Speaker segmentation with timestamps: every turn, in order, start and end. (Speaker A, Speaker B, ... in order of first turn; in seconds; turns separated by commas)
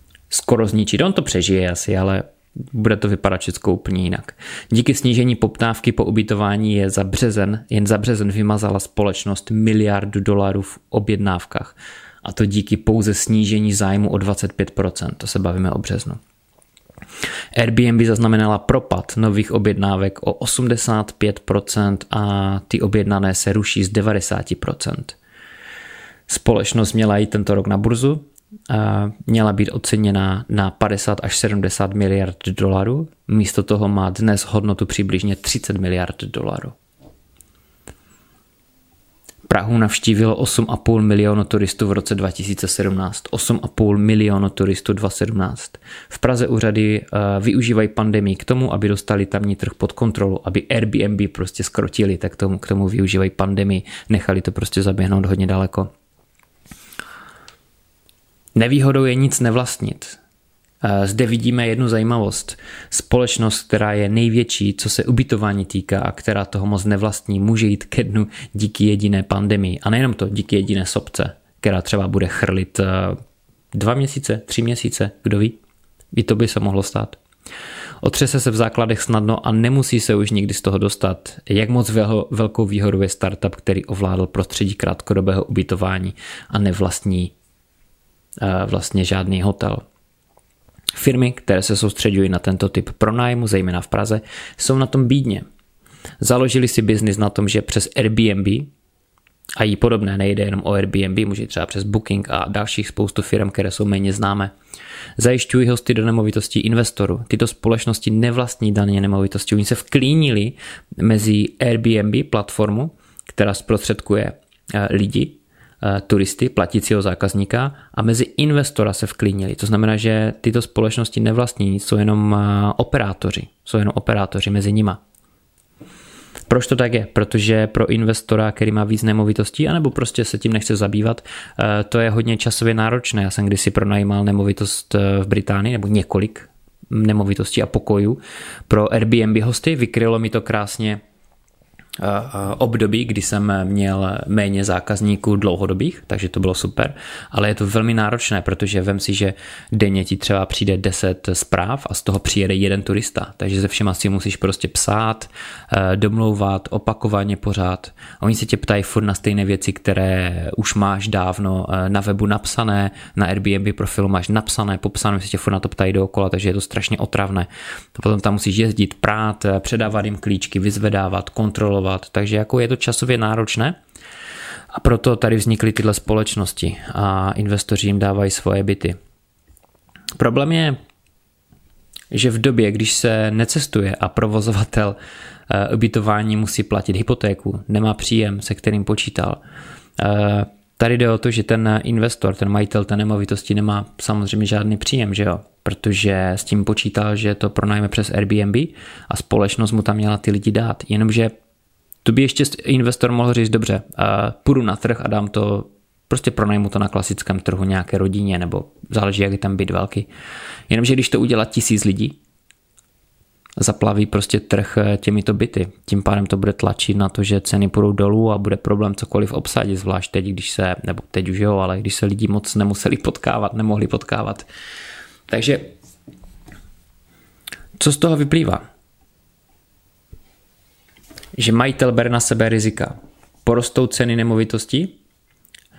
Speaker A: 0.3-16.2, Speaker A: 17.5-25.2, Speaker A: 26.3-36.8, Speaker A: 39.5-55.9, Speaker A: 58.5-60.2, Speaker A: 60.8-73.2, Speaker A: 73.7-75.6, Speaker A: 76.1-77.2, Speaker A: 78.0-87.3, Speaker A: 88.4-89.8, Speaker A: 90.9-95.5, Speaker A: 96.2-98.7, Speaker A: 99.6-104.5, Speaker A: 105.2-125.0, Speaker A: 126.5-141.0, Speaker A: 142.0-173.8, Speaker A: 174.7-179.0, Speaker A: 180.2-180.8, Speaker A: 182.1-185.0, Speaker A: 185.5-189.4, Speaker A: 190.0-201.3, Speaker A: 202.0-210.1, Speaker A: 210.7-212.2, Speaker A: 213.6-224.5, Speaker A: 225.3-225.7, Speaker A: 227.8-228.6, Speaker A: 231.4-232.9, Speaker A: 233.4-235.0